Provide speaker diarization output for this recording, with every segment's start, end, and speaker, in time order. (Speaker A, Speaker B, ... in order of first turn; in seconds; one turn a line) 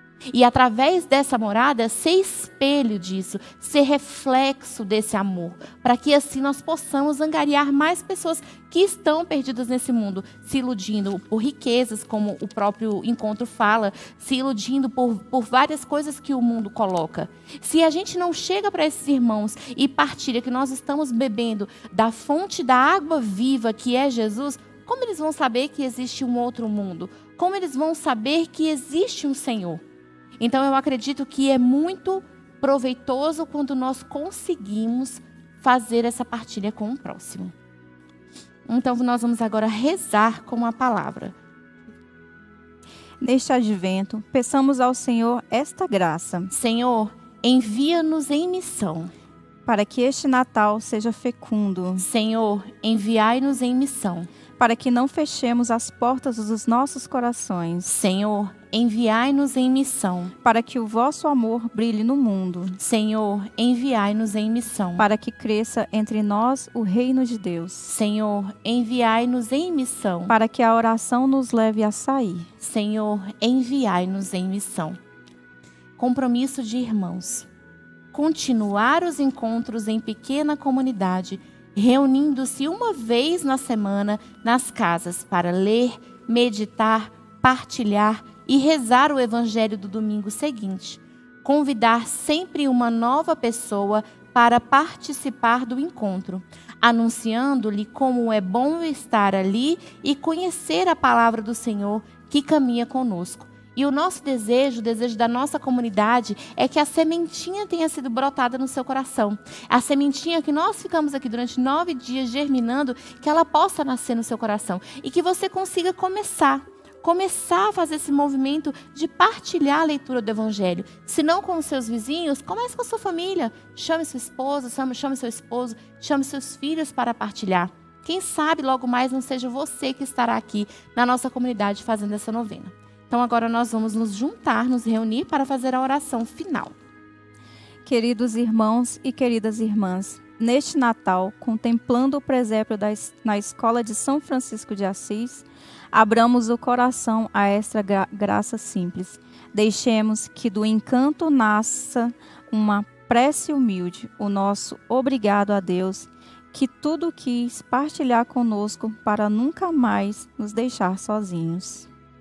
Speaker A: 0.3-29.8
Speaker A: 30.4-37.5
Speaker A: 38.7-41.3
Speaker B: 43.2-46.5
Speaker A: 46.5-49.1
Speaker B: 49.7-52.0
Speaker A: 52.0-54.3
Speaker B: 54.6-58.0
Speaker A: 57.9-60.3
Speaker B: 60.4-62.8
Speaker A: 62.8-65.1
Speaker B: 65.0-67.9
Speaker A: 67.9-70.3
Speaker B: 70.3-72.5
Speaker A: 72.6-75.0
Speaker A: 76.0-77.5
Speaker A: 78.1-136.7
Speaker B: 137.8-161.9